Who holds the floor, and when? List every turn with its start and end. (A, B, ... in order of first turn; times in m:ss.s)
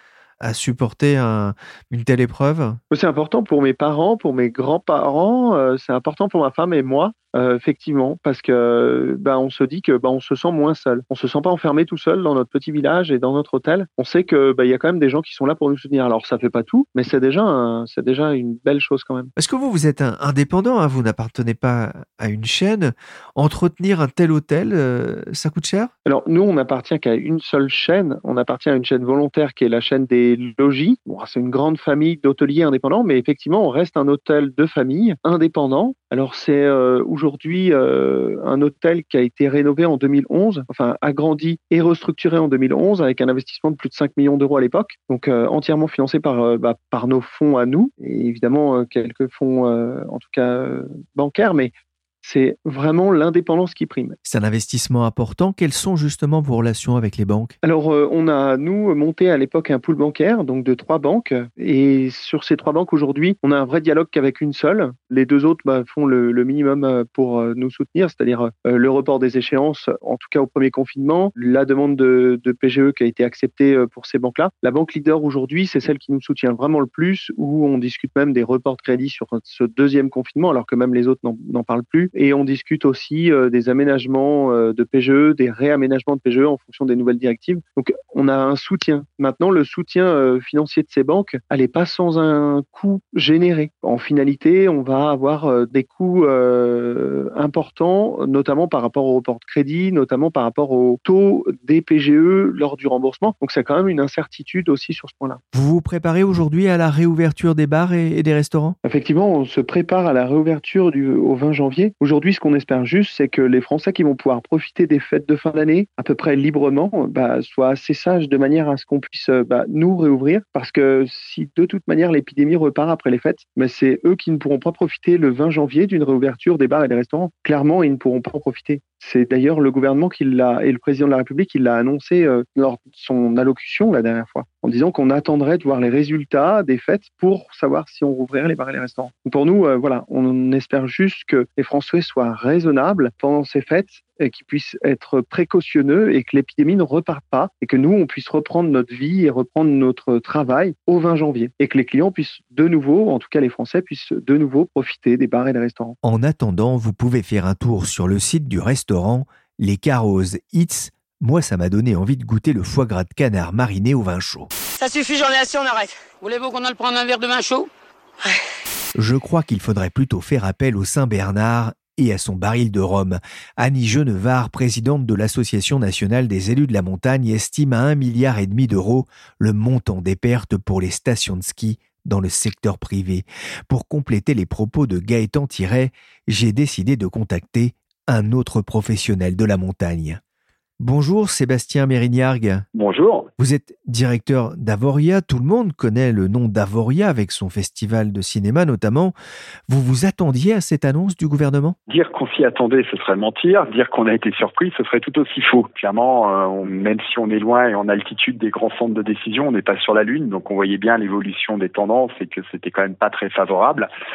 0:00.4-0:02.8 A
0:02.9-0:19.3 B
0:19.4-0:25.9 A
0:26.0-0:51.7 B
0:52.2-0:54.2 B
0:54.2-0:57.6 A
0:57.6-1:45.4 B
1:45.5-1:48.8 A
1:48.8-2:36.0 B
2:36.0-2:44.5 A
2:44.7-2:47.7 C
2:49.0-3:10.2 A
3:10.8-3:12.6 A
3:12.7-3:13.3 D
3:13.4-3:19.2 A
3:19.7-3:21.8 A
3:21.9-3:33.9 D